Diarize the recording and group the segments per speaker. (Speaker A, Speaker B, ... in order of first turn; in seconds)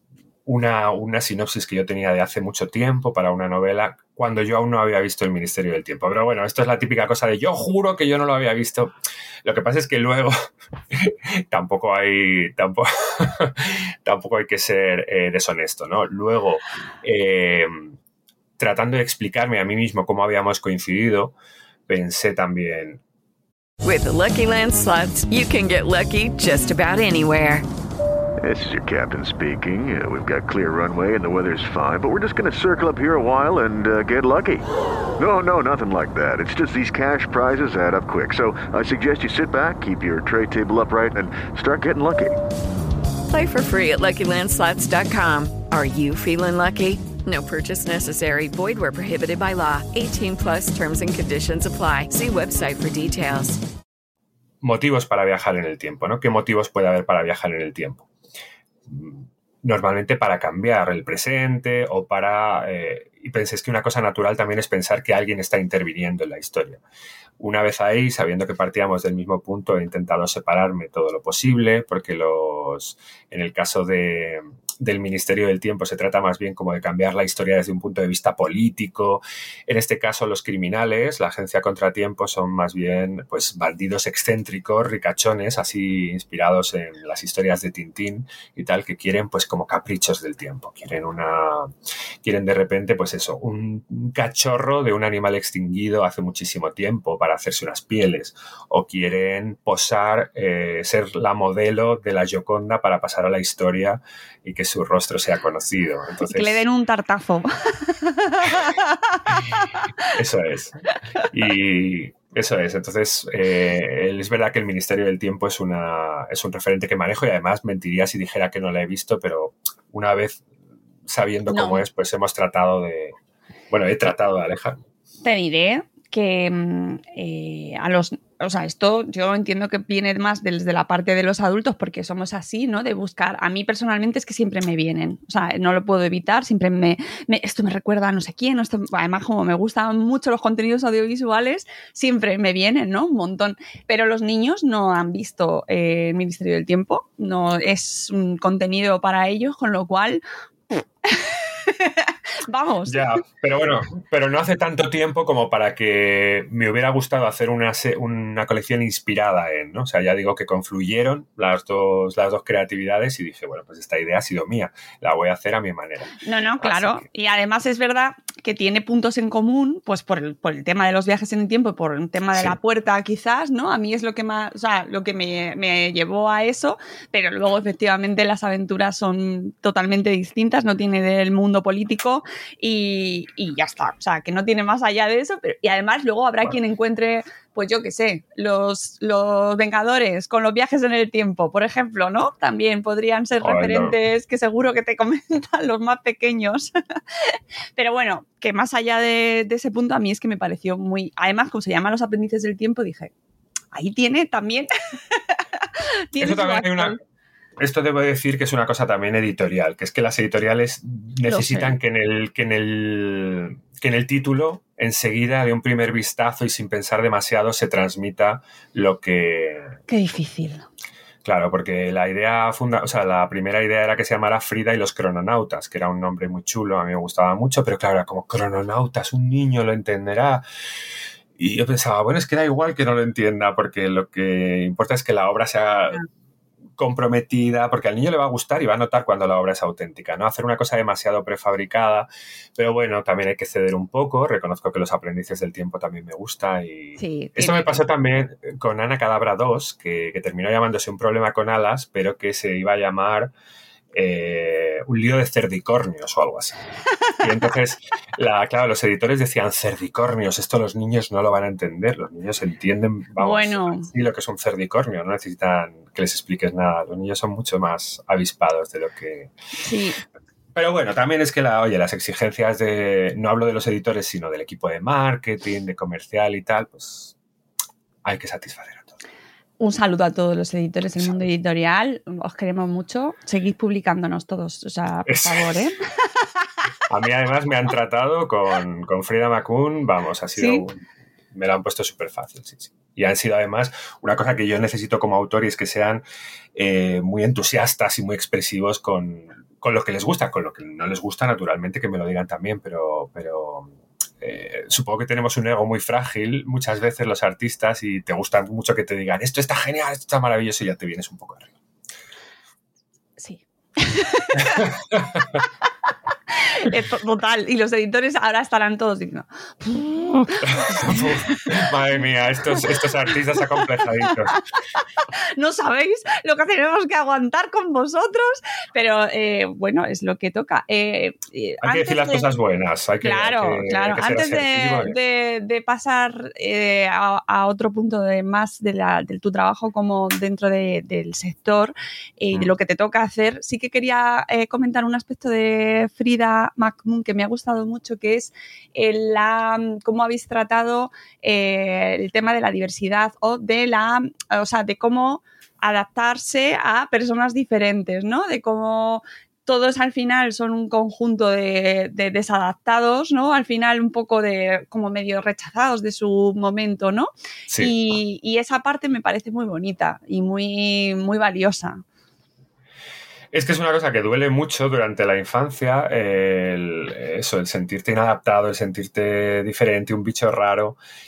Speaker A: 0.5-18.0, 18.6-21.4, 21.9-23.0, 54.6-58.1, 58.9-66.8, 67.4-106.6, 110.1-120.4, 121.1-123.2, 123.7-124.8, 152.9-167.1, 193.4-193.9, 206.2-207.0, 207.6-219.8, 221.2-230.4, 231.4-236.1, 236.8-253.3, 253.9-256.6, 257.2-269.3, 270.6-277.1, 278.0-278.9, 285.1-285.6, 286.9-296.0, 296.6-311.5, 314.4-315.4, 320.4-324.4, 331.6-335.0, 367.5-367.8, 373.3-380.8
Speaker B: 23.8-27.6, 43.3-53.6
Speaker C: 28.4-34.6, 35.2-42.4
Speaker D: 106.3-109.7, 121.5-121.8, 125.2-150.2, 151.1-153.2, 166.2-196.7, 197.3-203.1, 203.7-205.2, 206.1-207.0, 211.3-211.8, 219.9-220.7, 247.0-247.8, 263.2-263.9, 269.6-270.0, 279.6-285.8, 290.4-290.7, 313.2-314.7, 316.3-321.6, 324.0-332.3, 333.0-371.8